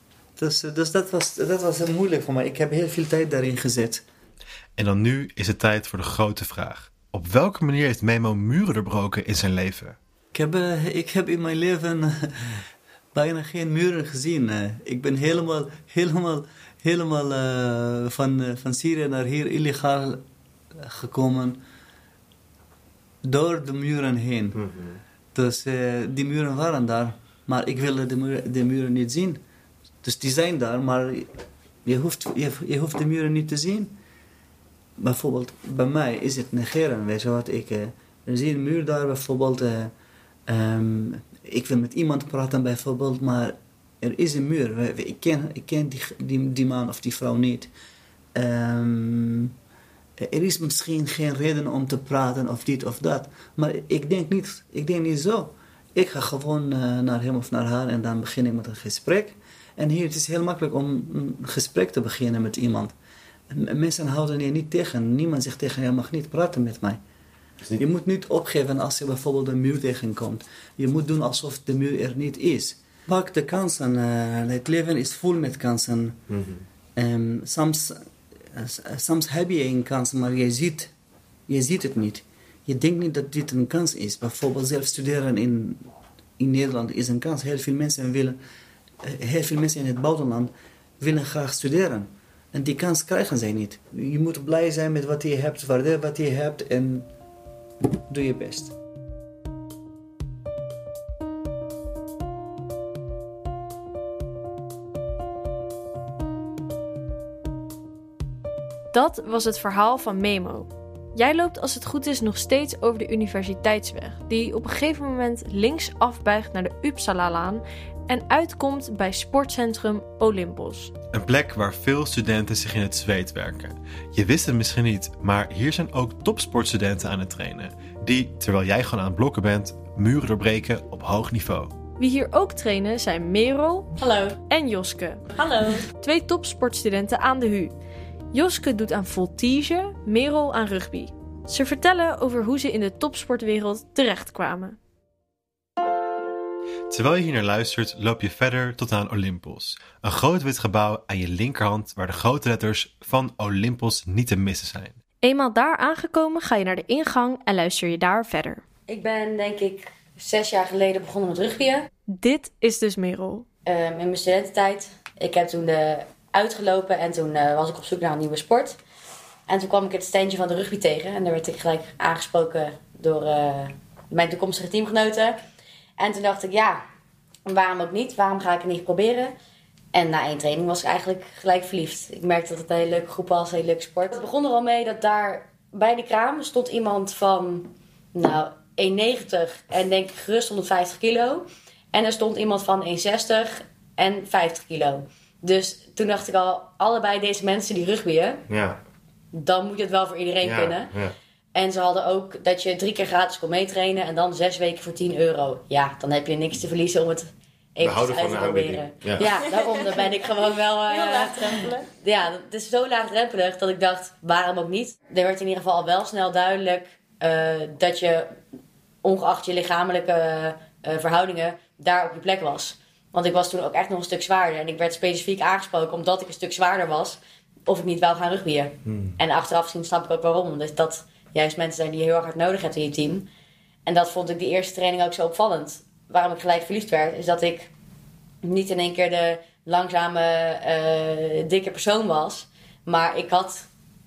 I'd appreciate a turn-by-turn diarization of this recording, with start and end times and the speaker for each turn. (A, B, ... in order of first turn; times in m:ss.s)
0:00.4-0:04.0 A
0:04.8-0:10.0 B
0:10.3-0:21.6 A
0:23.2-0:24.6 A
0:24.5-0:25.0 C
0:25.4-0:29.4 A
0:30.0-0:34.0 A
0:35.0-0:39.9 A
0:40.5-0:47.7 A
0:48.4-0:49.5 A
0:50.2-1:02.9 A
1:03.5-1:07.0 A
1:07.8-1:16.2 A
1:16.3-1:16.7 C
1:17.0-1:20.9 A
1:21.5-1:28.4 A
1:29.0-1:37.1 A
1:38.1-1:38.7 A
1:48.9-2:00.9 D
2:01.1-2:11.7 B
2:12.0-2:15.2 D
2:14.0-2:14.4 E
2:15.4-2:15.8 F
2:15.9-2:17.7 D
2:18.3-2:24.8 D
2:26.9-2:35.0 B
2:35.2-2:38.6 D
2:38.9-2:41.9 E
2:42.1-2:43.5 D
2:43.7-2:48.8 E
2:49.5-2:55.4 E
2:56.0-2:56.8 E
2:57.5-2:59.3 E
2:59.9-3:18.4 E
3:19.3-3:20.9 E
3:20.4-3:21.1 C
3:21.6-3:38.4 E
3:27.8-3:29.4 C
3:29.4-3:29.9 F
3:30.9-3:31.9 F
3:39.0-3:53.3 E
3:48.9-3:49.2 C
3:53.9-3:57.7 E
3:58.4-4:03.7 E